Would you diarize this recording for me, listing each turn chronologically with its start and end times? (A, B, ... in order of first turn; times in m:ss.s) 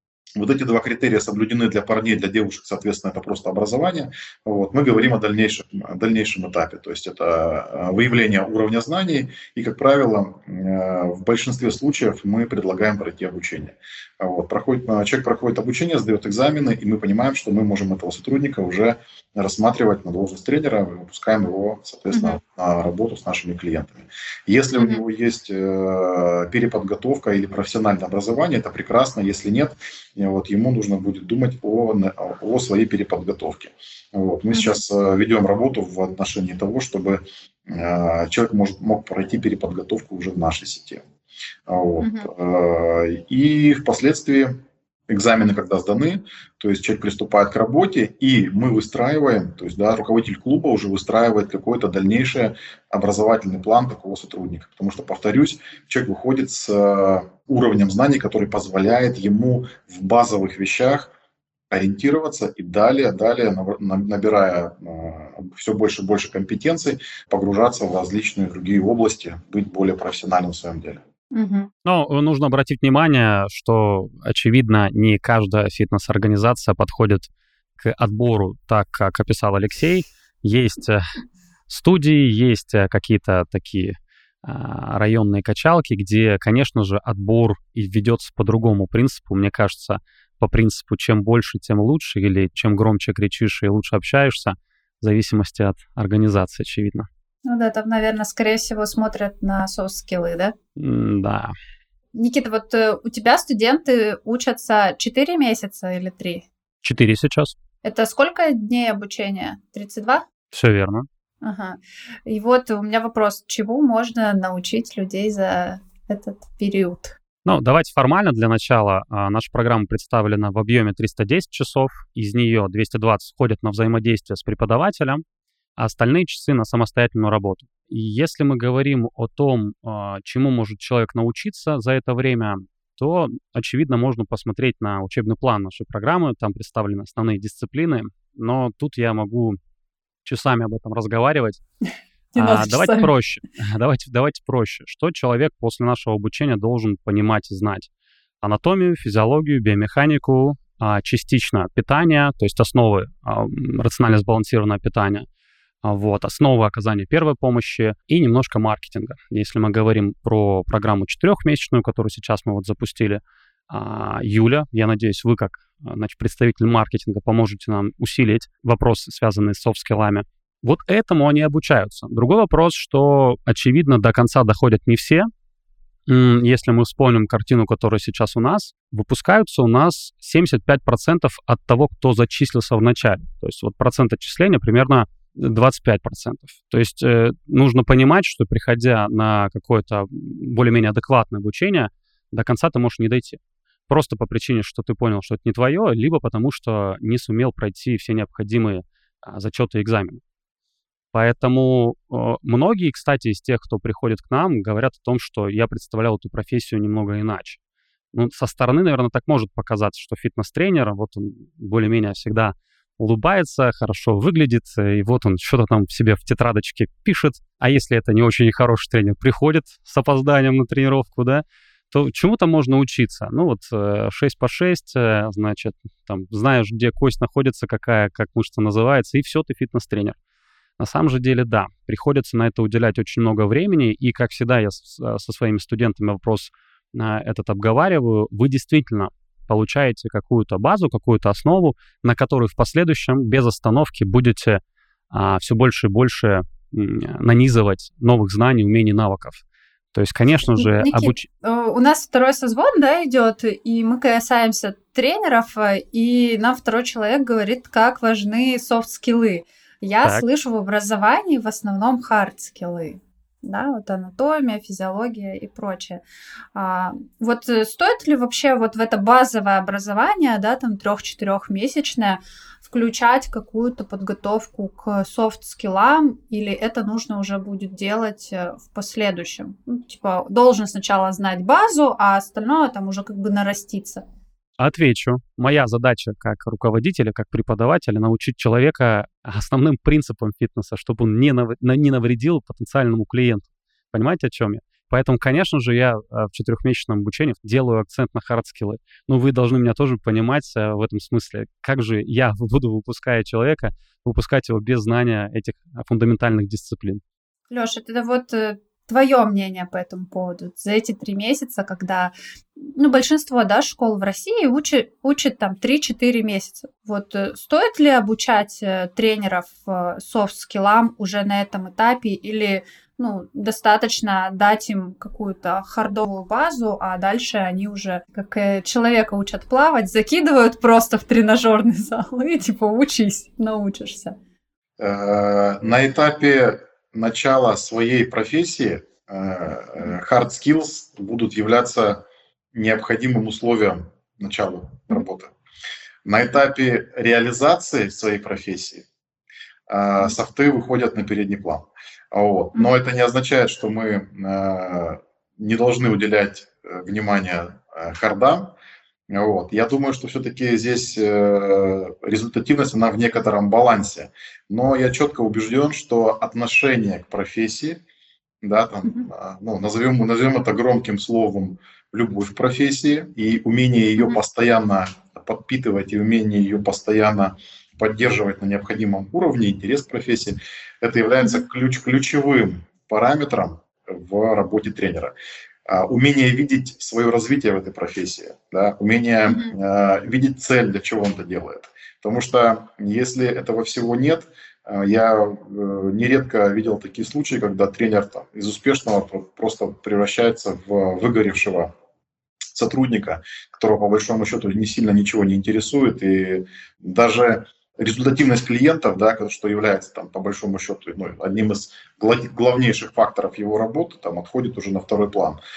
0:00.4-0:41.0 A
0:22.1-0:22.4 B
0:34.5-0:34.8 B
0:41.7-0:44.5 A
0:42.0-0:42.3 B
0:45.1-1:01.1 A
1:01.7-1:11.0 A
1:11.3-1:11.7 B
1:11.8-1:21.0 C
1:21.7-1:37.1 C
1:37.5-1:40.5 B
1:40.8-1:41.5 C
1:42.1-1:46.5 B
1:46.8-1:47.6 C
1:47.8-1:50.3 B
1:50.5-1:51.1 C
1:51.4-1:57.2 B
1:57.4-2:05.2 C
2:05.8-2:19.6 C
2:20.2-2:21.6 C
2:22.4-2:23.1 B
2:22.4-2:27.9 C
2:28.4-2:35.3 C
2:35.8-2:55.3 C
2:56.1-3:20.2 C
3:21.1-3:27.6 C
3:28.1-3:50.2 C
3:50.8-4:11.3 C
4:10.5-4:26.0 B
4:26.6-4:44.0 B
4:44.6-5:07.0 C
5:07.5-5:12.1 B
5:12.8-5:34.2 B
5:34.8-5:45.3 A
5:46.0-5:48.9 A
5:49.7-5:58.5 A
5:59.1-6:07.8 A
6:08.4-6:25.1 A
6:25.7-6:41.7 A
6:29.3-6:29.6 B
6:42.6-6:55.4 A